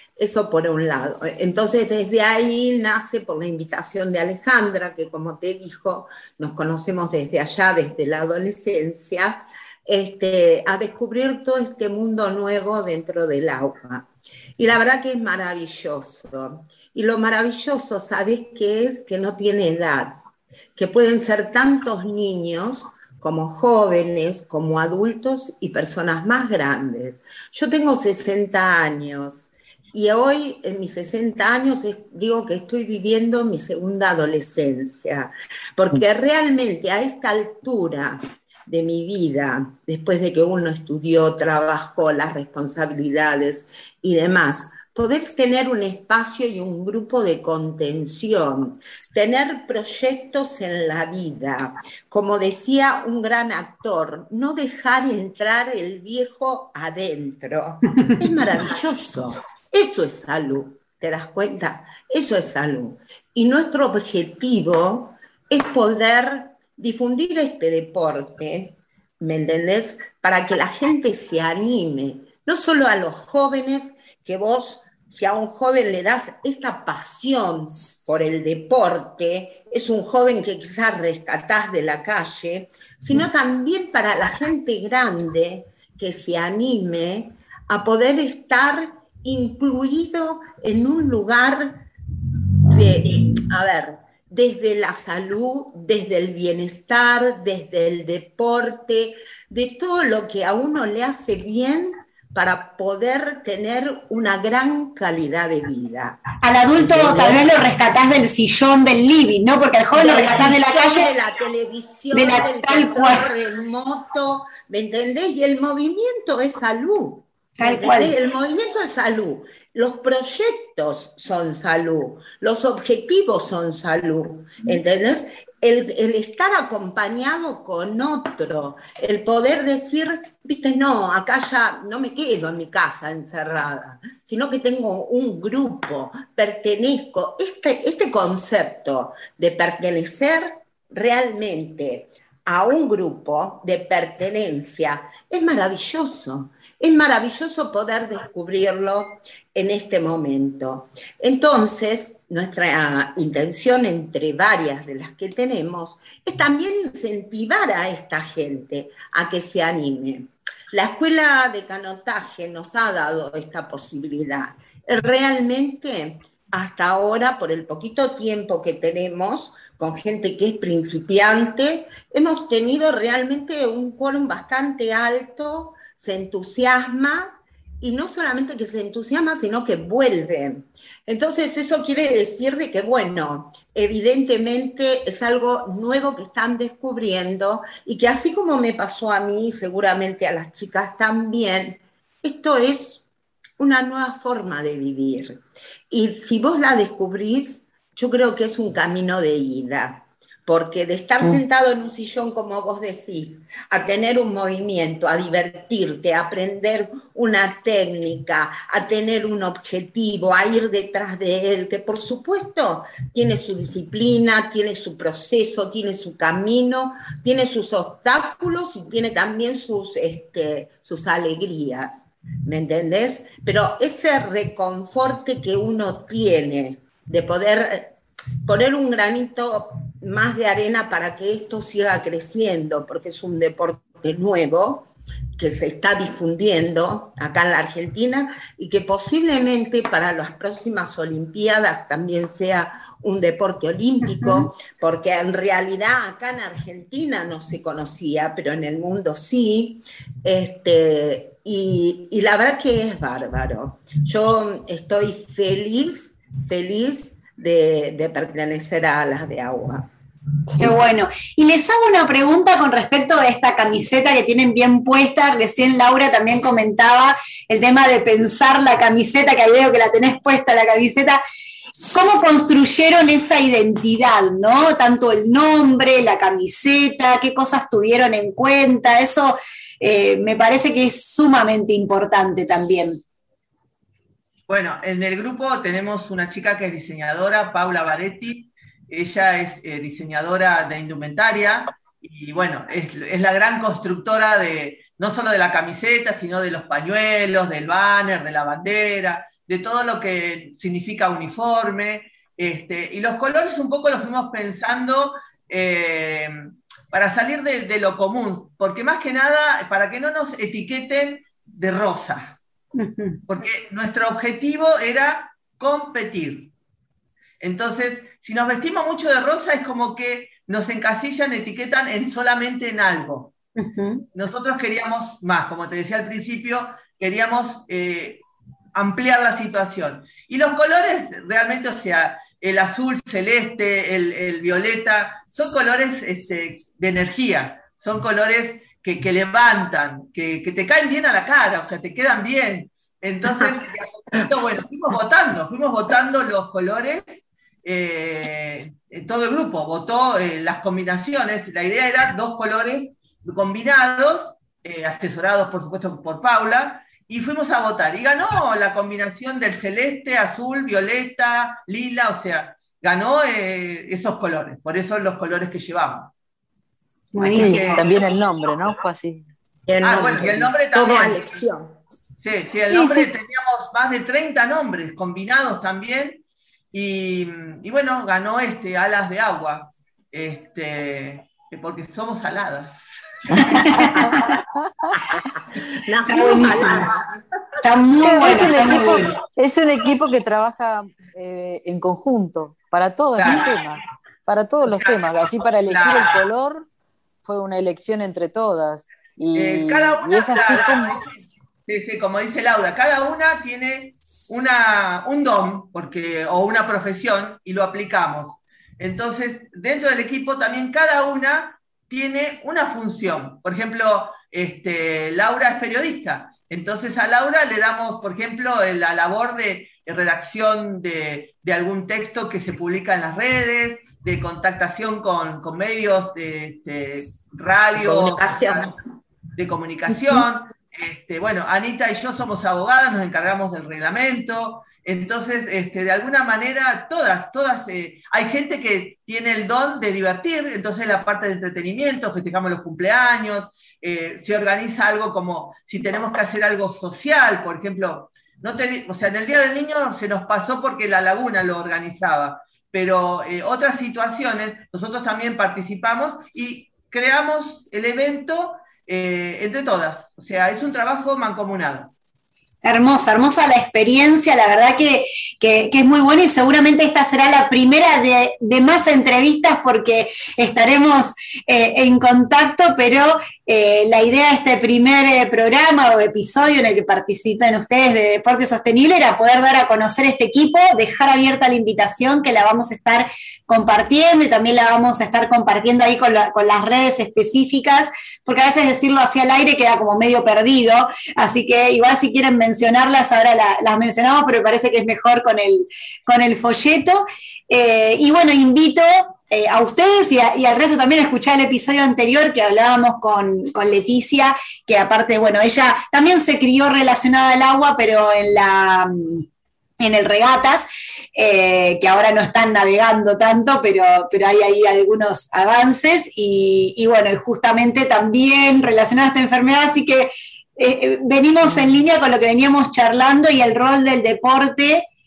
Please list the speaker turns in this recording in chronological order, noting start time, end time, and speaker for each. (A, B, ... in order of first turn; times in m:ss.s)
0:00.2-0:20.2 A
0:20.7-1:31.8 A
1:32.7-1:46.2 A
1:46.4-1:51.1 B
1:46.7-1:47.5 A
1:49.9-3:13.1 A
1:52.1-1:53.2 B
1:57.6-1:58.1 B
3:13.6-4:19.9 A
4:20.5-4:20.7 C
4:20.6-4:31.2 B
4:31.9-4:43.0 B
4:44.5-5:12.4 D
5:12.7-5:13.2 B
5:13.3-5:16.5 D
5:17.4-5:23.3 D
5:23.6-5:24.0 B
5:24.1-5:28.2 D
5:28.7-6:06.1 D
6:07.1-6:07.8 B
6:07.2-6:07.8 D
6:07.3-6:09.3 C
6:09.7-6:11.8 A
6:09.8-6:11.3 D
6:12.2-6:22.8 D
6:12.7-6:13.1 C
6:23.4-6:24.2 B
6:23.7-6:24.0 A
6:24.0-6:25.0 C
6:25.3-6:27.2 A
6:26.1-6:26.9 B
6:27.6-6:29.2 B
6:28.0-6:36.7 C
6:33.2-6:33.6 D
6:34.6-6:36.2 D
6:37.2-6:41.0 C
6:39.3-6:41.1 D
6:41.7-7:08.8 D
7:07.8-7:08.7 A
7:09.4-7:41.9 D
7:42.6-8:29.2 B
8:29.8-8:44.8 B